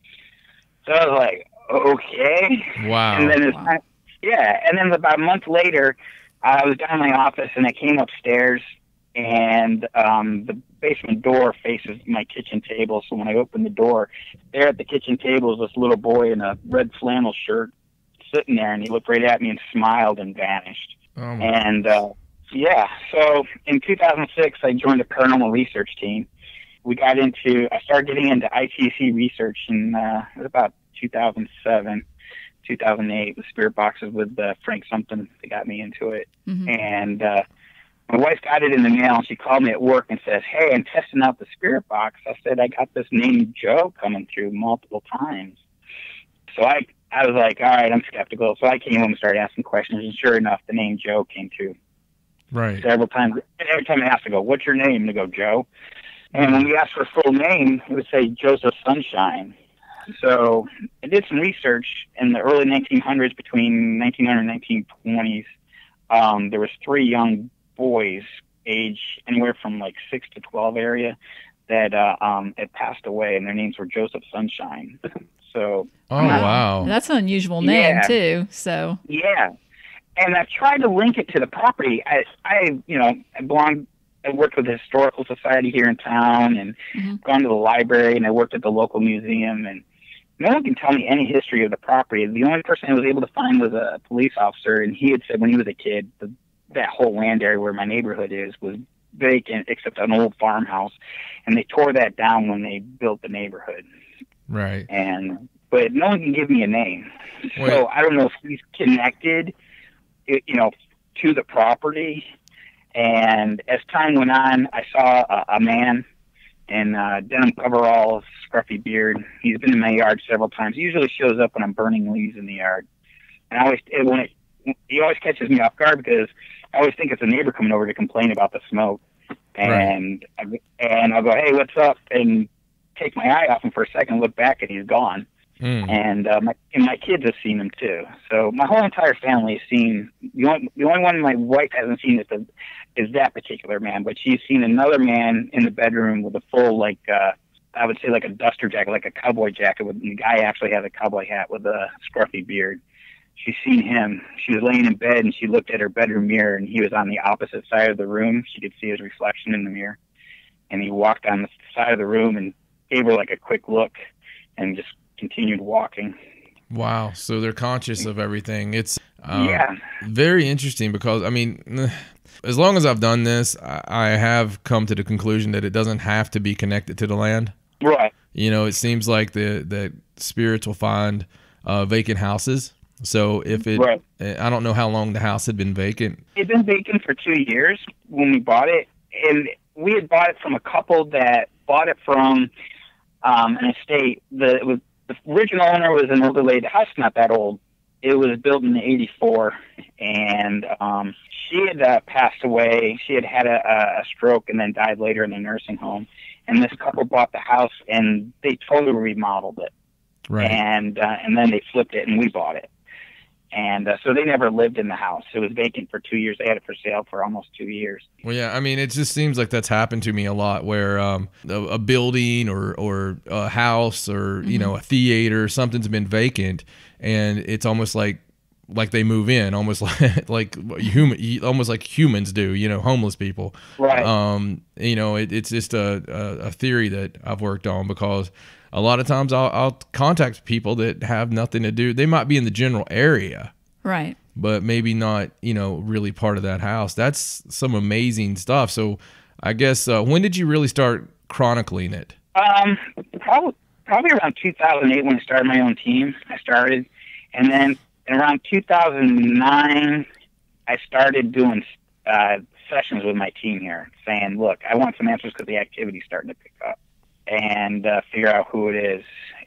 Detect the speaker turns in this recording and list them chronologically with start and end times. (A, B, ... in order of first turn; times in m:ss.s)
0:00.8-0:08.6 A
0:02.8-0:03.4 B
0:09.1-0:17.7 A
0:18.3-0:26.3 A
0:21.2-0:21.5 B
0:26.8-0:32.0 A
0:32.6-0:37.4 A
0:36.5-0:36.7 C
0:38.1-0:45.5 A
0:46.5-0:51.7 A
0:52.5-0:52.8 B
0:52.8-0:55.6 A
0:56.3-0:59.5 A
0:56.3-0:56.6 B
1:00.1-1:05.4 A
1:06.1-1:11.2 A
1:11.7-1:16.6 A
1:16.1-1:16.9 B
1:16.2-1:19.0 C
1:17.6-1:18.1 A
1:19.1-1:19.5 A
1:20.2-1:29.8 A
1:30.4-1:40.9 A
1:41.5-1:43.8 A
1:44.5-1:44.9 B
1:44.9-1:49.5 A
1:47.6-1:47.8 B
1:50.3-1:52.2 A
1:52.9-1:56.0 A
1:56.7-2:02.8 A
2:03.5-2:04.3 A
2:04.9-2:09.0 A
2:09.6-2:15.2 A
2:09.6-2:09.9 B
2:15.6-2:16.0 B
2:15.8-2:32.8 A
2:33.4-2:40.0 A
2:40.7-2:43.9 A
2:44.6-2:46.1 A
2:46.7-2:57.5 B
2:49.3-2:49.8 A
2:57.8-2:58.1 A
2:58.3-3:06.2 B
3:03.7-3:04.0 A
3:06.4-3:12.5 A
3:13.2-3:29.7 A
3:30.3-3:30.6 B
3:30.4-3:32.7 A
3:33.5-3:38.1 A
3:38.2-4:03.5 B
3:44.4-3:44.7 C
3:53.8-3:54.1 A
4:03.8-4:04.2 C
4:04.4-4:12.2 B
4:12.3-4:20.0 A
4:20.7-4:26.8 A
4:27.3-4:29.0 A